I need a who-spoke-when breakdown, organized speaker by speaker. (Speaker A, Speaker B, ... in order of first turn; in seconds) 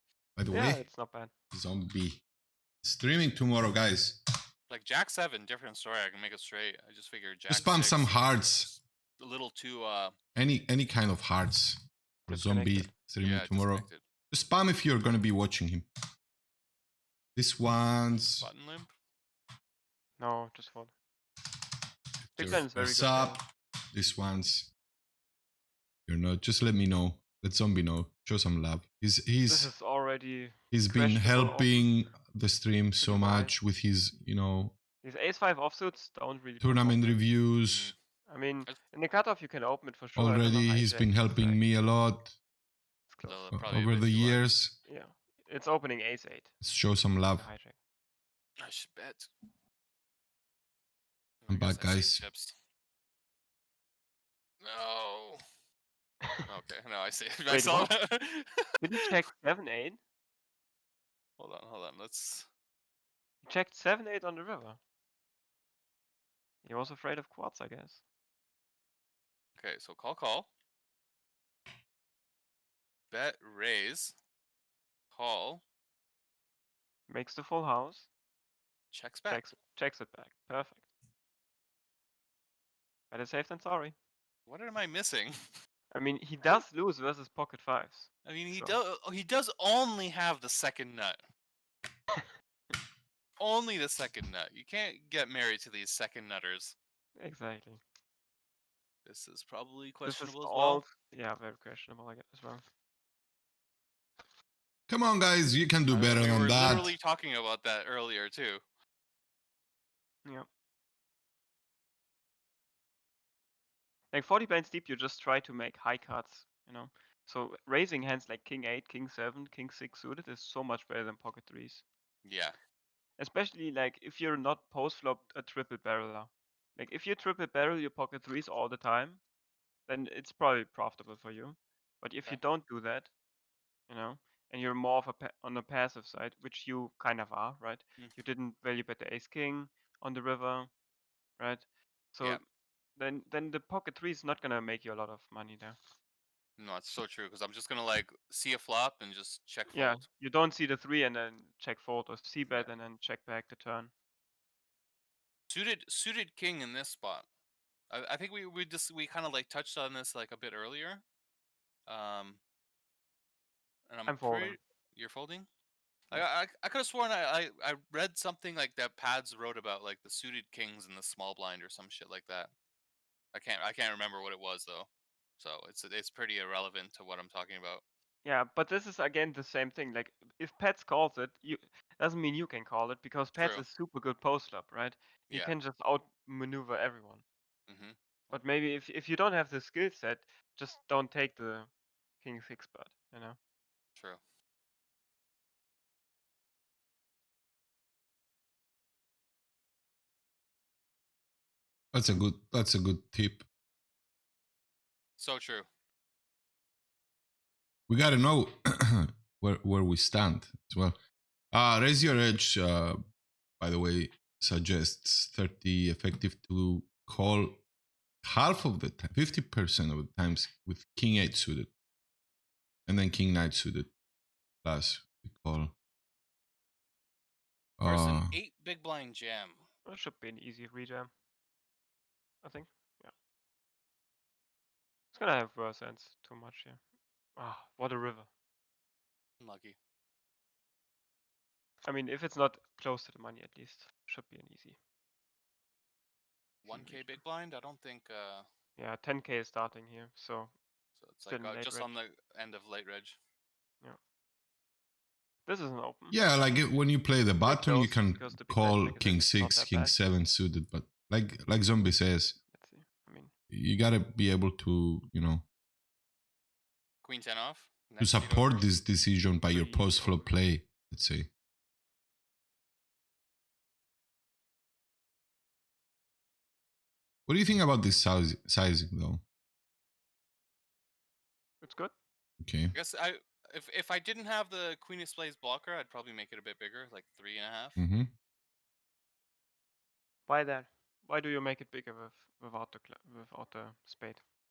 Speaker A: 0.3-0.8, 1.5-2.2, 2.8-4.2, 7.5-8.7, 10.3-15.9, 17.3-18.5, 22.3-23.4, 23.9-24.7, 26.1-29.7, 30.7-34.7, 36.6-37.9, 40.1-42.4, 43.5-44.8, 46.6-47.5, 51.5-52.3, 104.9-106.9, 201.9-203.4, 207.9-211.0, 211.5-213.0, 213.6-217.6, 218.2-221.7, 222.8-223.9, 224.6-225.7, 227.8-228.3, 256.1-262.4, 263.5-265.4, 268.0-271.3, 277.3-279.2, 282.4-282.7, 287.8-288.1
Speaker B: 0.5-1.3, 12.3-12.9, 20.2-20.9, 22.4-23.4, 29.4-32.1, 33.0-33.5, 35.0-37.3, 38.3-41.6, 43.1-43.4, 44.8-46.5, 47.3-47.8, 57.5-58.0, 58.8-60.0, 63.4-64.8, 66.6-68.0, 77.1-78.1, 79.3-80.9, 83.1-83.9, 85.9-88.8, 97.2-97.8, 100.0-102.6, 114.1-121.8, 123.2-129.2, 129.9-133.1, 133.9-140.7, 141.4-142.4, 142.9-145.8, 149.7-153.9, 164.1-164.6, 178.2-187.2, 188.3-193.4, 229.8-231.1, 232.4-233.1, 235.1-236.8, 237.3-238.3, 241.8-244.8, 246.7-247.2, 248.8-250.6, 251.2-251.9, 255.4-256.2, 257.4-260.0, 262.5-263.3, 269.5-270.0, 281.6-281.9, 290.3-294.2
Speaker C: 4.7-10.1, 13.2-14.0, 18.3-18.9, 37.6-38.0, 43.2-44.5, 48.6-49.3, 51.4-52.5, 54.6-55.4, 56.5-58.6, 61.4-62.5, 69.6-70.5, 73.1-74.1, 75.1-75.6, 78.9-79.4, 84.5-85.3, 88.2-91.2, 93.4-96.7, 99.0-100.8, 105.9-108.6, 122.2-122.6, 146.6-150.1, 152.4-152.7, 155.5-157.2, 157.9-161.0, 161.9-162.4, 163.9-165.5, 166.1-172.5, 173.3-177.8, 183.3-183.7, 185.3-185.6, 187.7-187.9, 205.2-205.7, 227.8-229.7, 239.4-239.8, 246.6-248.4, 251.0-253.2, 267.0-268.7, 269.5-270.2, 282.7-287.8